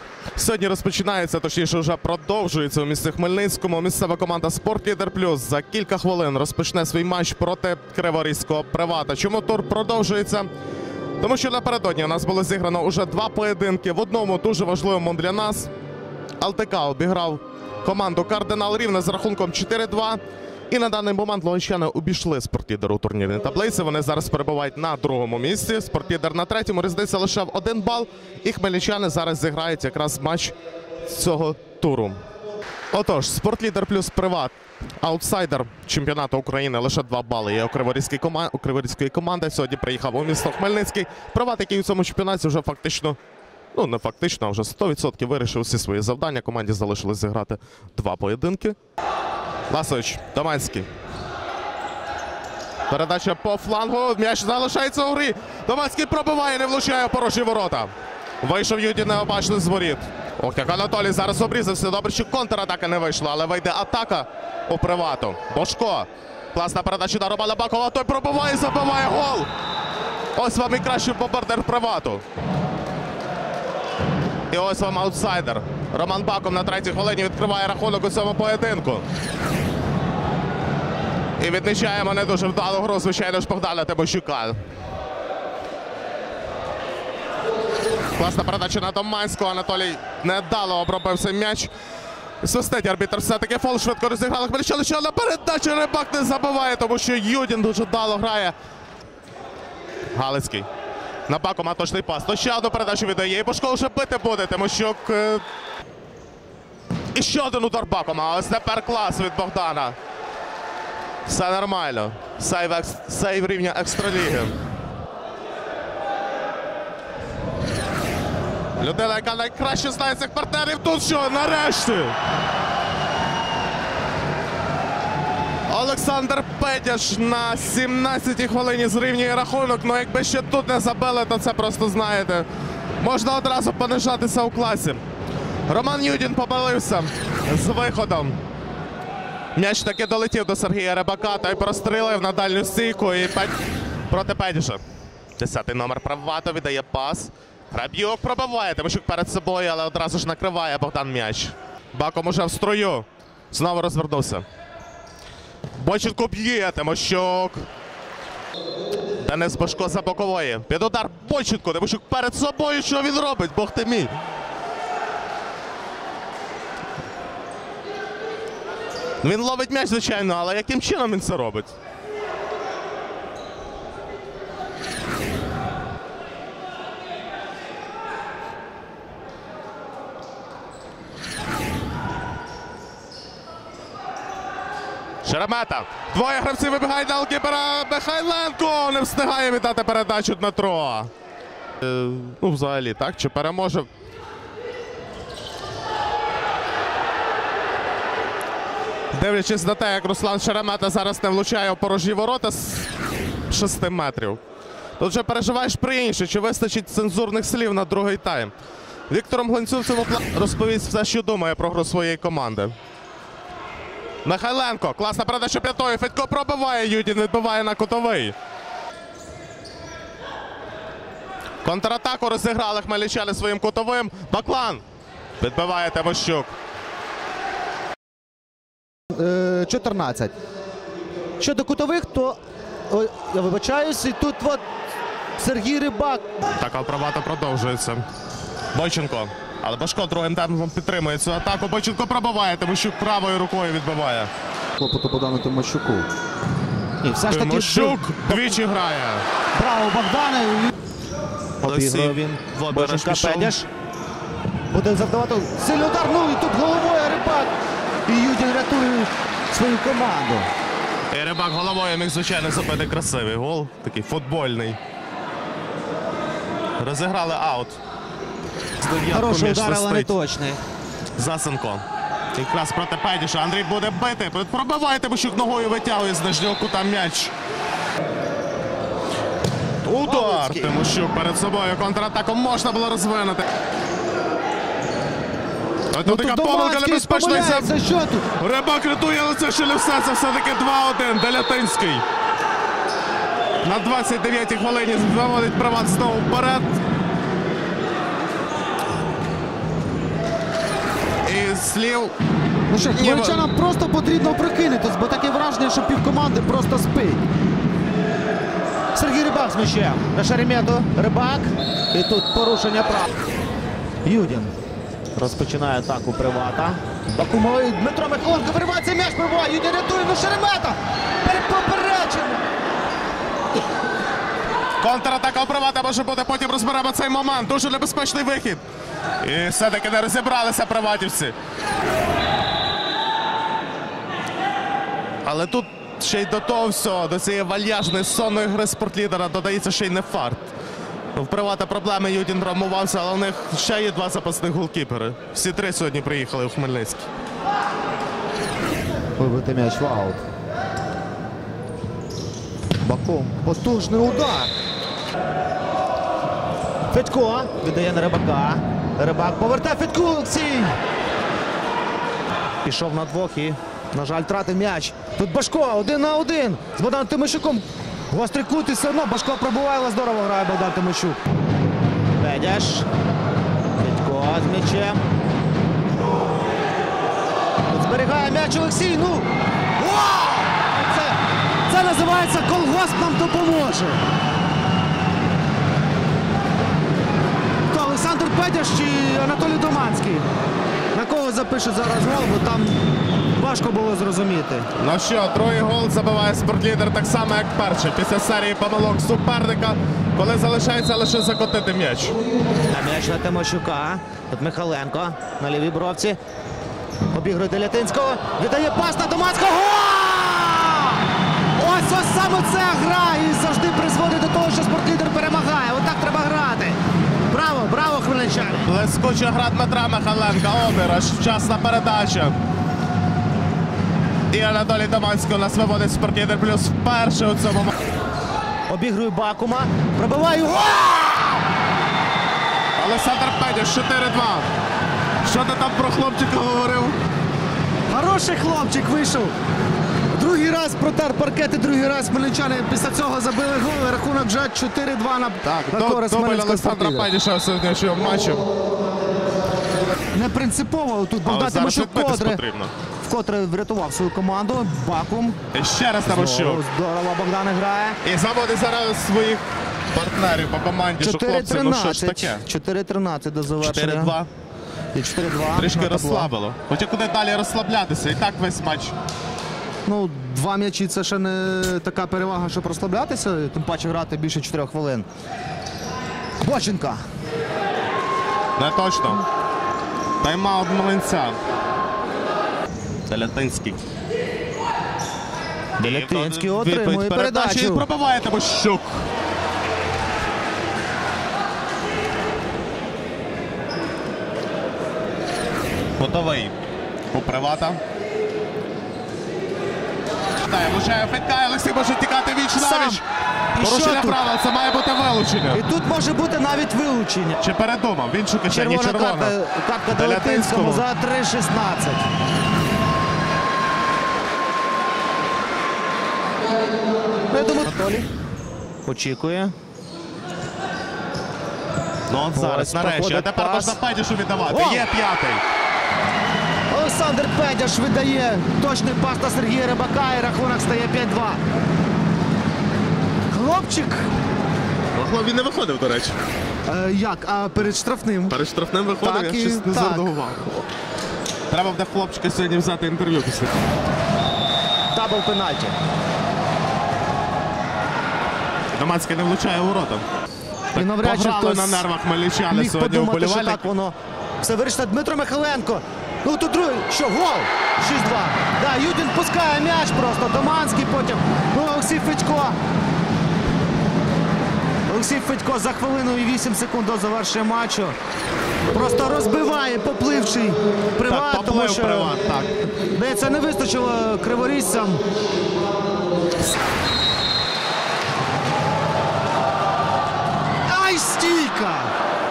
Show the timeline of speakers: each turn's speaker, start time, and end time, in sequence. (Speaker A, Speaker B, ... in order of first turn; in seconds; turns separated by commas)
Speaker A: 0.4-10.5, Speaker A: 11.2-15.7, Speaker A: 16.4-30.5, Speaker A: 31.1-32.2, Speaker A: 32.9-43.2, Speaker A: 43.7-48.8, Speaker A: 49.7-50.9, Speaker A: 52.9-57.9, Speaker A: 58.4-69.5, Speaker A: 70.3-72.2, Speaker A: 74.5-79.0, Speaker A: 81.4-84.6, Speaker A: 88.2-91.7, Speaker A: 92.4-98.6, Speaker A: 100.1-100.7, Speaker A: 101.3-105.4, Speaker A: 107.1-110.0, Speaker A: 111.3-114.6, Speaker A: 118.8-122.2, Speaker A: 125.7-132.5, Speaker A: 133.0-135.0, Speaker A: 135.7-138.4, Speaker A: 139.5-143.5, Speaker A: 144.1-144.8, Speaker A: 145.4-154.4, Speaker A: 155.7-157.7, Speaker A: 159.2-164.1, Speaker A: 169.2-171.7, Speaker A: 185.2-191.1, Speaker A: 191.8-193.9, Speaker A: 199.1-202.9, Speaker A: 203.5-204.4, Speaker A: 205.0-208.5, Speaker A: 209.1-212.7, Speaker A: 214.2-218.3, Speaker A: 221.6-224.8, Speaker A: 225.4-226.5, Speaker B: 229.1-230.3, Speaker B: 231.4-232.4, Speaker B: 232.9-234.6, Speaker B: 235.4-236.2, Speaker A: 236.6-238.1, Speaker A: 238.7-244.3, Speaker B: 244.8-246.1, Speaker B: 247.0-248.6, Speaker A: 247.3-249.2, Speaker B: 249.5-250.7, Speaker B: 251.6-253.7, Speaker A: 251.6-253.6, Speaker B: 254.7-257.5, Speaker B: 258.1-260.5, Speaker A: 261.1-264.8, Speaker A: 266.8-267.8, Speaker A: 268.8-270.1, Speaker B: 269.1-270.6, Speaker A: 271.2-271.8, Speaker A: 272.4-277.3, Speaker A: 279.9-283.4, Speaker B: 280.0-280.8, Speaker A: 285.9-287.8, Speaker B: 286.0-288.2, Speaker A: 288.4-292.1, Speaker A: 293.6-296.8, Speaker A: 301.2-302.2, Speaker B: 302.7-307.2, Speaker A: 302.8-303.5, Speaker B: 308.9-313.1, Speaker B: 314.0-314.5, Speaker B: 315.1-322.4, Speaker A: 324.8-328.6, Speaker A: 329.2-331.4, Speaker A: 335.2-340.5, Speaker A: 341.1-347.1, Speaker B: 349.2-350.2, Speaker B: 352.8-354.5, Speaker B: 356.9-360.8, Speaker B: 362.6-371.2, Speaker B: 372.2-372.9, Speaker B: 373.8-375.0, Speaker B: 377.7-384.0, Speaker B: 387.7-390.3, Speaker B: 390.9-392.8, Speaker B: 393.4-394.7, Speaker A: 394.8-402.2, Speaker B: 402.7-406.2, Speaker B: 407.1-411.0, Speaker B: 411.6-418.7, Speaker A: 418.6-422.4, Speaker A: 424.3-427.7, Speaker B: 428.7-431.4, Speaker A: 432.8-434.5, Speaker A: 435.2-437.0, Speaker B: 437.9-439.4, Speaker B: 440.1-447.1, Speaker A: 445.4-448.5, Speaker B: 450.1-452.4, Speaker A: 451.2-452.7, Speaker B: 453.0-455.4, Speaker A: 455.5-456.6, Speaker B: 456.1-458.0, Speaker A: 458.0-462.4, Speaker B: 461.0-464.2, Speaker A: 463.6-464.3, Speaker B: 464.9-466.3, Speaker A: 465.6-468.9, Speaker B: 469.9-475.1, Speaker B: 476.4-477.0, Speaker A: 478.6-479.2, Speaker A: 480.2-481.4, Speaker A: 483.1-483.8, Speaker A: 485.8-489.1, Speaker B: 485.8-487.9, Speaker A: 496.0-496.6, Speaker A: 497.1-497.8, Speaker A: 500.4-503.0, Speaker B: 502.6-503.0, Speaker B: 503.6-504.2, Speaker A: 503.6-505.6, Speaker B: 505.5-507.4, Speaker A: 507.4-510.9, Speaker B: 508.5-512.1, Speaker B: 517.3-518.1, Speaker B: 518.9-519.5, Speaker A: 522.1-525.4, Speaker B: 522.4-523.8, Speaker B: 524.5-524.9, Speaker B: 526.7-531.4, Speaker B: 533.3-534.1, Speaker A: 535.0-536.1, Speaker B: 536.7-538.4, Speaker A: 538.3-540.6, Speaker B: 539.0-540.1, Speaker A: 541.5-543.5, Speaker B: 544.9-545.8, Speaker A: 548.7-550.0, Speaker A: 550.7-553.7, Speaker B: 550.7-551.9, Speaker B: 552.5-562.6, Speaker B: 564.9-568.0, Speaker B: 568.7-572.1, Speaker A: 571.0-572.5, Speaker B: 572.9-575.0, Speaker B: 580.7-581.9